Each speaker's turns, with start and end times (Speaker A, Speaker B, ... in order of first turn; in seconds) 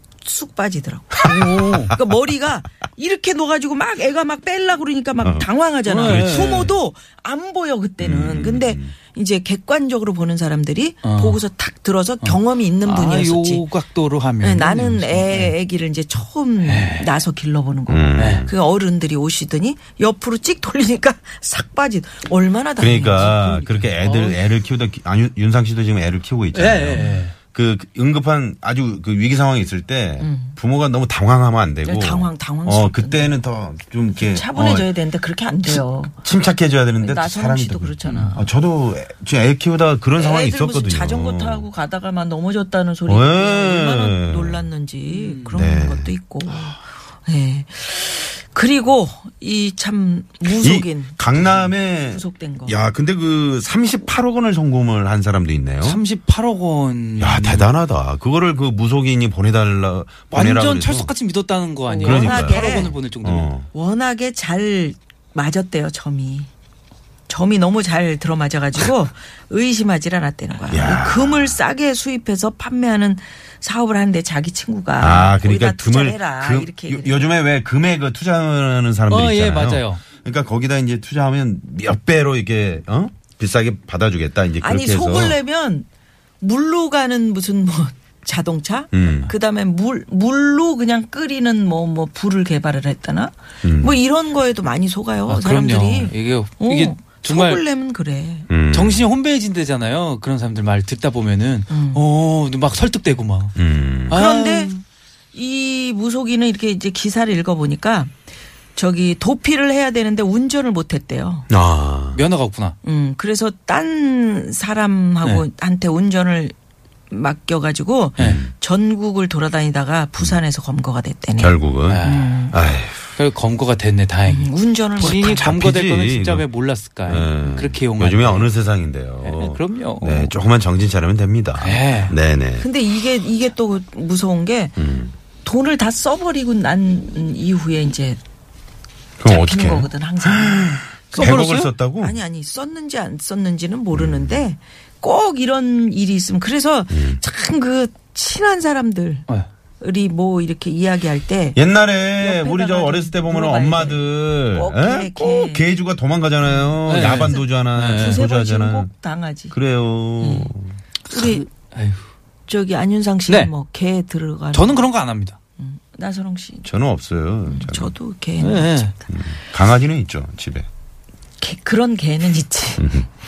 Speaker A: 0.2-13.6, 14.4-23.9, 30.2-30.5, 31.8-33.4, 34.1-36.1, 37.0-38.5, 40.1-51.2, 51.8-52.7, 61.9-63.0, 63.7-66.5, 67.3-77.3, 84.6-85.9, 86.4-98.5, 101.7-102.0, 104.1-104.7, 105.3-108.1, 108.7-111.5, 112.8-116.5, 117.1-122.5, 124.3-125.5, 132.6-134.8, 135.4-138.2, 139.2-149.2, 149.8-151.6, 152.1-155.7, 156.9-159.6, 160.2-160.5, 161.1-161.5, 162.5-164.9, 165.6-166.7, 167.4-168.9, 171.4-173.0
Speaker B: 1.2-1.9, 5.8-6.7, 11.0-11.4, 12.2-15.5, 16.6-17.1, 18.2-18.5, 24.0-24.4, 26.5-27.3, 45.1-45.6, 55.8-57.7, 60.3-63.5, 79.1-80.0, 95.2-97.6, 98.7-103.5, 104.1-104.8, 112.1-112.8, 121.9-122.3, 123.2-128.5, 129.2-130.4, 131.6-132.1, 141.1-141.7, 156.8-158.2, 161.1-162.0, 164.5-165.4, 168.4-168.9
Speaker C: 5.2-5.5, 6.0-6.7, 8.0-8.9, 17.9-18.5, 22.8-34.9, 36.2-41.7, 43.0-44.6, 45.5-46.1, 50.5-56.0, 57.2-61.1, 62.0-63.7, 70.7-71.6, 75.0-85.4, 88.9-89.3, 93.6-94.0, 98.5-99.1, 103.5-104.2, 111.5-112.2, 118.2-118.5, 121.4-123.0, 125.1-126.5, 127.0-132.7, 134.8-135.1, 139.2-142.2, 143.9-144.4, 146.9-147.2, 151.6-158.9, 159.5-160.8, 166.6-167.9, 169.1-170.7, 172.8-173.1